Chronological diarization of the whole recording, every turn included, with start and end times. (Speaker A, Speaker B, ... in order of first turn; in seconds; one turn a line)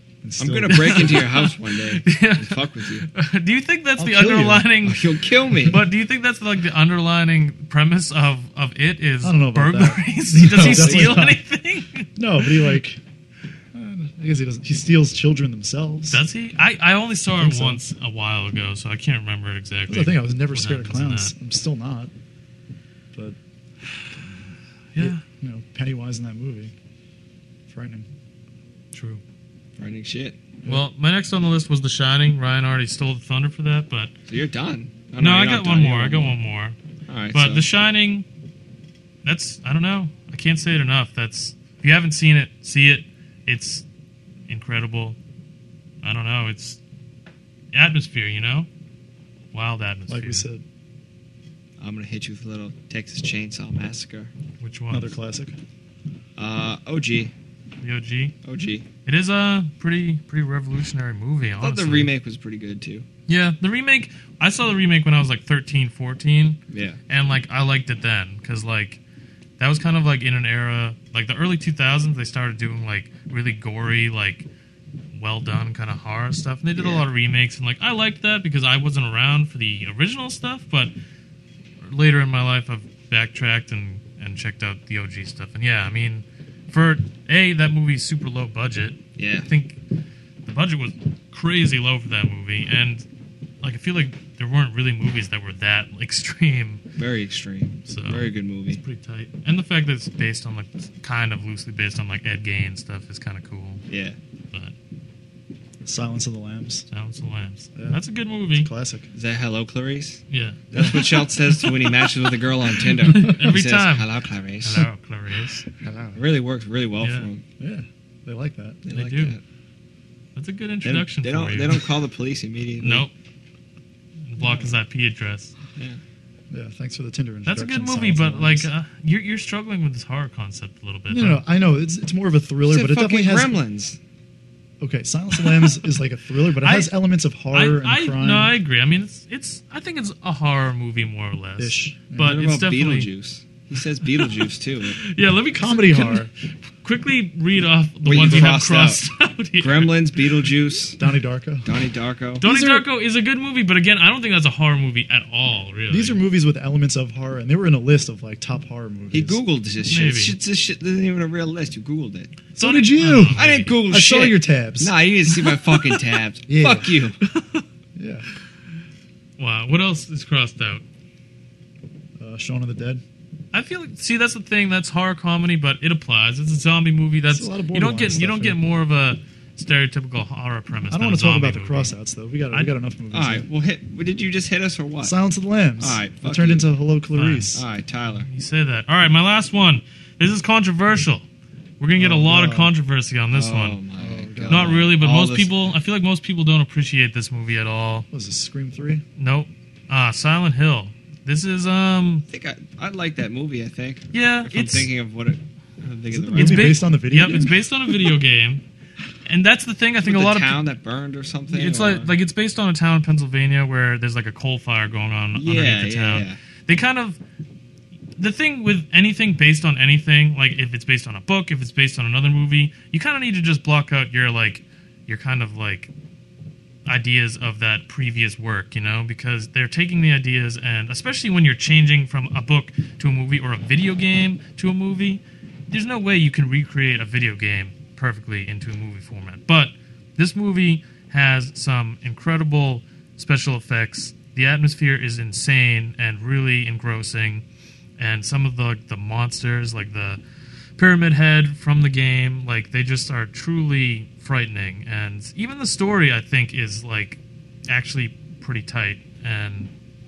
Speaker A: 0.2-1.3
Speaker B: 0.4-3.1
Speaker C: 0.7-5.1
Speaker A: 4.0-4.7
Speaker B: 4.8-5.8
Speaker C: 5.7-12.7
Speaker A: 9.2-11.4
Speaker B: 10.5-11.3
Speaker A: 12.2-13.0
Speaker A: 13.7-16.2
Speaker C: 16.1-21.3
Speaker A: 17.4-17.8
Speaker A: 19.9-22.1
Speaker A: 23.1-23.4
Speaker A: 24.1-26.7
Speaker C: 24.9-25.2
Speaker A: 27.7-28.1
Speaker C: 28.9-29.2
Speaker B: 29.8-30.4
Speaker C: 30.6-34.1
Speaker B: 34.3-36.4
Speaker C: 35.2-36.8
Speaker B: 37.1-37.7
Speaker C: 37.3-38.3
Speaker C: 39.2-43.9
Speaker C: 44.5-45.2
Speaker C: 46.0-46.8
Speaker C: 47.7-48.7
Speaker C: 49.5-50.5
Speaker A: 50.1-50.6
Speaker B: 51.8-54.3
Speaker C: 54.6-55.2
Speaker A: 54.9-55.6
Speaker B: 56.4-57.3
Speaker C: 57.8-58.4
Speaker B: 58.4-58.9
Speaker C: 59.1-62.1
Speaker B: 61.6-63.1
Speaker C: 63.3-69.0
Speaker B: 66.7-67.0
Speaker C: 69.6-74.5
Speaker C: 75.1-80.9
Speaker B: 76.8-77.1
Speaker C: 81.8-89.8
Speaker B: 89.2-89.5
Speaker C: 90.5-93.1
Speaker C: 93.6-96.8
Speaker B: 97.0-98.8
Speaker C: 97.9-103.8
Speaker B: 103.9-104.2
Speaker A: 105.8-106.9
Speaker C: 106.9-108.7
Speaker A: 107.8-108.0
Speaker A: 108.5-109.1
Speaker B: 109.1-114.9
Speaker C: 110.3-111.9
Speaker C: 113.0-114.1
Speaker A: 113.1-113.4
Speaker C: 114.6-115.7
Speaker A: 115.8-116.2
Speaker B: 116.1-117.4
Speaker C: 117.0-117.3
Speaker A: 117.6-118.8
Speaker B: 118.8-119.4
Speaker C: 118.9-119.4
Speaker C: 120.3-121.8
Speaker B: 120.8-123.1
Speaker C: 122.8-123.1
Speaker C: 124.3-125.5
Speaker A: 124.4-124.7
Speaker A: 126.5-128.7
Speaker C: 127.5-131.4
Speaker A: 131.1-133.6
Speaker B: 132.7-134.0
Speaker A: 134.8-138.6
Speaker C: 135.4-135.9
Speaker C: 136.6-136.9
Speaker C: 137.5-143.1
Speaker A: 141.6-142.4
Speaker B: 142.2-145.0
Speaker C: 145.0-150.2
Speaker A: 145.5-146.3
Speaker B: 148.1-149.1
Speaker B: 149.6-151.0
Speaker A: 151.0-151.7
Speaker B: 151.6-152.4
Speaker A: 152.4-152.9
Speaker C: 152.4-156.2
Speaker A: 155.9-159.4
Speaker B: 159.1-162.4
Speaker C: 159.9-160.4
Speaker A: 162.6-167.1
Speaker C: 162.6-163.8
Speaker B: 163.3-167.2
Speaker C: 167.2-167.7
Speaker A: 167.9-168.3
Speaker C: 169.4-170.8
Speaker A: 172.2-173.0
Speaker C: 173.5-181.9
Speaker A: 177.3-178.6
Speaker A: 180.9-183.5
Speaker B: 183.1-185.2
Speaker A: 185.0-187.6
Speaker B: 185.8-186.7
Speaker C: 187.2-187.6
Speaker B: 187.5-188.3
Speaker C: 188.3-191.3
Speaker C: 191.8-193.8
Speaker A: 192.0-192.7
Speaker B: 193.3-195.6
Speaker A: 194.0-194.8
Speaker C: 194.5-198.1
Speaker A: 198.1-199.0
Speaker C: 199.2-202.3
Speaker B: 202.3-206.8
Speaker C: 204.1-204.9
Speaker A: 206.1-207.6
Speaker C: 206.4-208.6
Speaker C: 209.2-210.6
Speaker B: 210.0-212.1
Speaker C: 211.5-217.2
Speaker B: 215.3-216.4
Speaker C: 218.2-225.9
Speaker C: 226.9-247.4
Speaker C: 248.0-250.2
Speaker C: 250.8-259.7